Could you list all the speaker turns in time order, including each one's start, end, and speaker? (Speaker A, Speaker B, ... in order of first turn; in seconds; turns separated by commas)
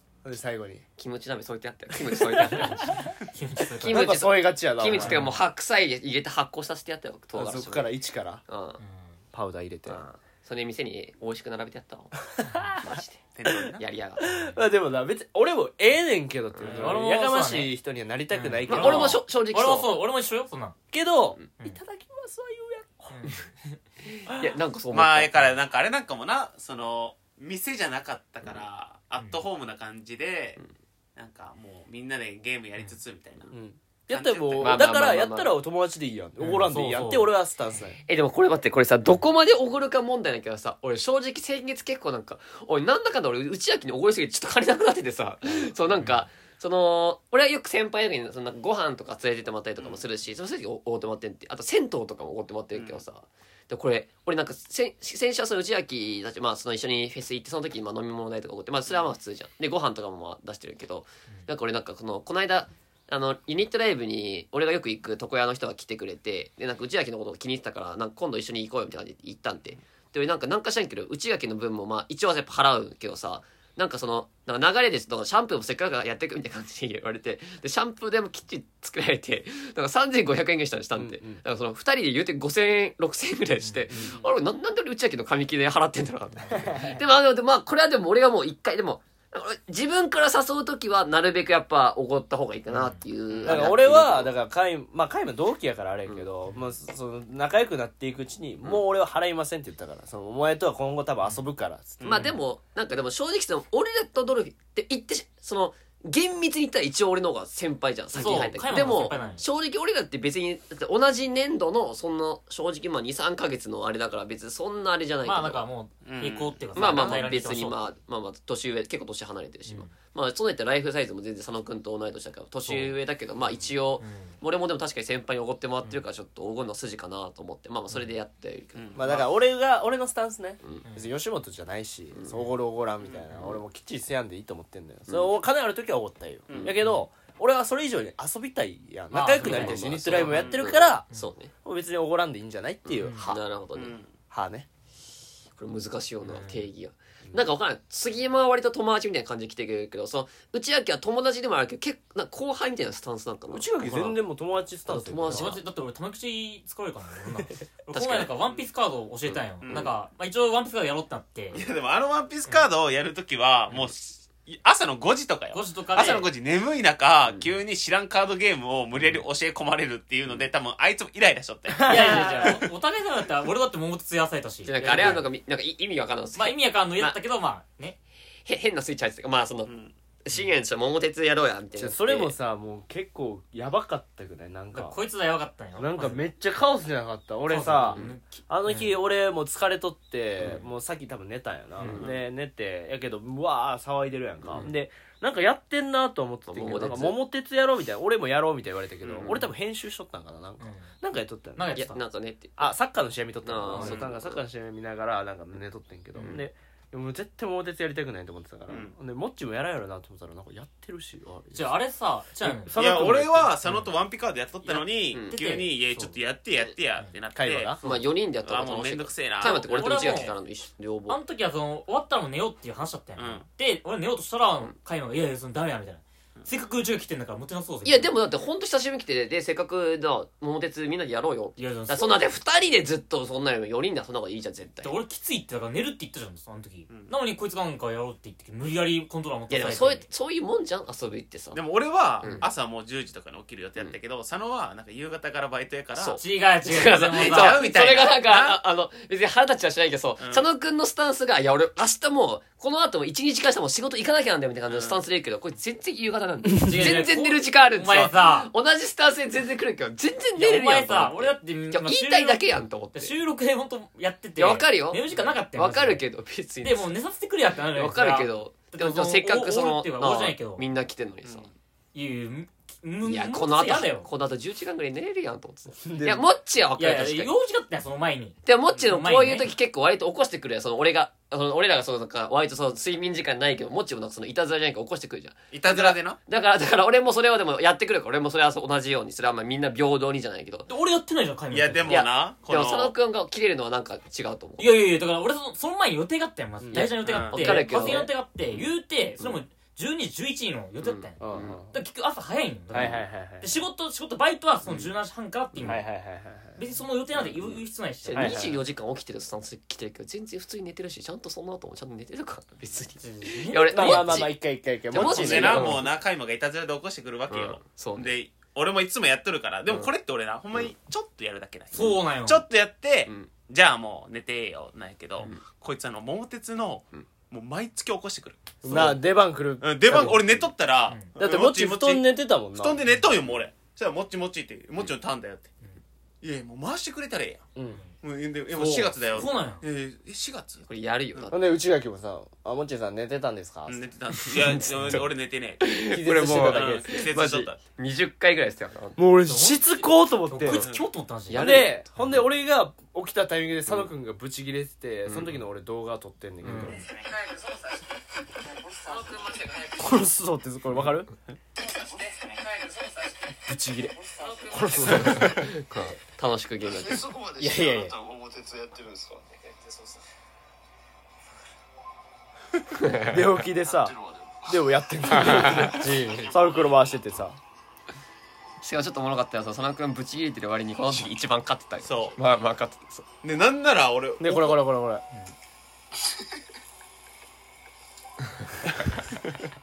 Speaker A: 0.2-0.8, Speaker B: 1.0-3.0, Speaker C: 2.4-4.1, Speaker B: 3.7-7.9, Speaker A: 3.8-5.3, Speaker C: 4.9-5.4, Speaker A: 7.3-8.4, Speaker B: 8.5-8.8, Speaker C: 8.8-9.1, Speaker A: 9.3-10.0, Speaker B: 9.8-12.1, Speaker A: 12.3-12.8, Speaker B: 12.7-13.2, Speaker D: 13.3-13.8, Speaker B: 13.8-14.4, Speaker A: 14.2-19.2, Speaker B: 16.6-16.8, Speaker C: 16.7-17.7, Speaker C: 18.3-20.8, Speaker B: 18.7-19.9, Speaker A: 20.9-23.4, Speaker C: 23.1-23.8, Speaker B: 24.0-25.3, Speaker D: 24.9-30.6, Speaker C: 29.2-29.4, Speaker D: 31.1-33.5, Speaker A: 33.5-38.0, Speaker D: 34.1-35.0, Speaker B: 34.6-35.5, Speaker C: 36.4-37.3, Speaker B: 38.1-94.3, Speaker D: 52.7-53.0, Speaker A: 80.9-81.4, Speaker A: 83.9-84.2, Speaker A: 86.5-87.0, Speaker C: 92.7-93.0, Speaker D: 93.3-93.7, Speaker A: 93.4-102.2, Speaker D: 102.0-102.3, Speaker B: 102.0-115.6, Speaker C: 108.1-109.4, Speaker A: 108.2-108.5, Speaker C: 115.2-117.8, Speaker D: 116.0-117.2, Speaker B: 116.7-129.2, Speaker C: 124.0-124.4, Speaker D: 128.8-129.3, Speaker A: 128.9-141.1, Speaker B: 135.1-135.3, Speaker D: 136.5-136.8, Speaker C: 136.8-137.1, Speaker C: 139.1-140.3, Speaker B: 139.4-141.5, Speaker D: 140.1-140.7, Speaker A: 141.6-143.4, Speaker B: 142.8-144.0, Speaker C: 143.0-143.3, Speaker D: 143.7-144.1, Speaker A: 144.3-144.7, Speaker B: 145.6-154.2, Speaker C: 146.2-146.7, Speaker A: 153.5-155.6, Speaker B: 154.8-155.6, Speaker C: 155.2-161.6, Speaker B: 157.9-158.3, Speaker D: 159.6-159.9, Speaker D: 161.5-172.3, Speaker C: 165.5-166.3, Speaker A: 171.7-172.6, Speaker C: 171.8-175.2, Speaker B: 174.6-177.2, Speaker A: 174.8-175.2, Speaker C: 176.3-178.0, Speaker B: 178.4-179.7, Speaker D: 179.7-179.9, Speaker B: 180.2-182.3, Speaker A: 181.8-185.0, Speaker C: 184.7-186.2, Speaker A: 185.8-201.7, Speaker C: 187.4-188.9, Speaker B: 191.8-192.1, Speaker B: 194.4-194.7, Speaker B: 196.5-197.2, Speaker D: 199.0-199.3, Speaker C: 200.6-200.9, Speaker C: 201.5-202.0, Speaker B: 201.7-202.7, Speaker A: 202.6-211.8, Speaker B: 203.4-204.4, Speaker C: 203.7-204.0, Speaker D: 208.7-208.9, Speaker C: 211.5-213.9, Speaker A: 212.4-213.5, Speaker D: 212.7-217.7, Speaker C: 214.6-216.2, Speaker B: 215.1-215.4, Speaker A: 217.3-217.8, Speaker B: 217.8-221.2, Speaker D: 218.4-220.1, Speaker C: 219.5-220.3, Speaker C: 221.1-228.1, Speaker D: 223.2-223.4, Speaker B: 227.8-234.9, Speaker C: 231.6-232.3, Speaker C: 234.8-240.0, Speaker B: 239.5-241.6, Speaker D: 241.5-246.2, Speaker B: 242.2-242.5, Speaker B: 245.9-263.1, Speaker C: 246.2-247.6, Speaker D: 247.1-248.6, Speaker D: 250.2-250.4, Speaker D: 254.7-255.0, Speaker C: 256.6-258.5, Speaker C: 260.4-266.0, Speaker B: 264.4-266.9, Speaker C: 266.6-270.6, Speaker B: 267.7-271.5, Speaker D: 271.2-271.5, Speaker C: 271.9-274.1, Speaker B: 273.0-277.3, Speaker A: 275.8-276.3, Speaker C: 276.8-279.5, Speaker B: 278.4-290.7, Speaker D: 285.5-286.2, Speaker C: 290.7-292.0, Speaker D: 291.5-292.9, Speaker B: 291.9-294.7, Speaker C: 294.6-305.8, Speaker A: 296.6-296.9, Speaker B: 296.7-298.6, Speaker D: 297.0-297.7, Speaker B: 300.8-301.6, Speaker A: 301.2-301.7, Speaker A: 302.7-303.5, Speaker A: 305.6-306.6, Speaker C: 306.5-308.4, Speaker B: 308.0-314.4, Speaker A: 308.1-308.6, Speaker C: 313.0-314.3, Speaker A: 313.6-315.8, Speaker B: 314.9-315.9, Speaker D: 314.9-329.0, Speaker B: 317.3-318.1, Speaker C: 321.7-322.4, Speaker B: 328.6-328.9, Speaker A: 328.6-330.5, Speaker D: 329.6-335.5, Speaker A: 331.1-332.8, Speaker C: 332.8-333.1, Speaker D: 336.2-337.4, Speaker A: 337.6-337.8, Speaker D: 338.0-341.3, Speaker C: 338.5-339.6, Speaker B: 340.7-341.4, Speaker A: 341.3-343.8, Speaker D: 343.6-347.6, Speaker A: 344.5-345.0, Speaker B: 345.6-349.0, Speaker A: 345.9-347.0, Speaker A: 349.0-350.7, Speaker C: 349.2-352.1, Speaker D: 350.5-350.8, Speaker B: 351.3-352.2, Speaker A: 351.3-356.9, Speaker B: 355.1-355.4, Speaker C: 356.4-356.8, Speaker E: 356.9-357.8, Speaker E: 358.4-359.9, Speaker A: 359.8-361.1, Speaker E: 361.6-365.1, Speaker A: 363.4-365.4, Speaker B: 364.7-367.1, Speaker E: 366.7-370.0, Speaker C: 367.4-367.9, Speaker B: 372.8-373.2, Speaker A: 373.1-377.4, Speaker E: 373.6-376.8, Speaker C: 375.5-376.3, Speaker B: 378.6-383.1, Speaker D: 381.8-382.2, Speaker D: 383.2-384.6, Speaker A: 384.2-385.0, Speaker B: 388.7-389.0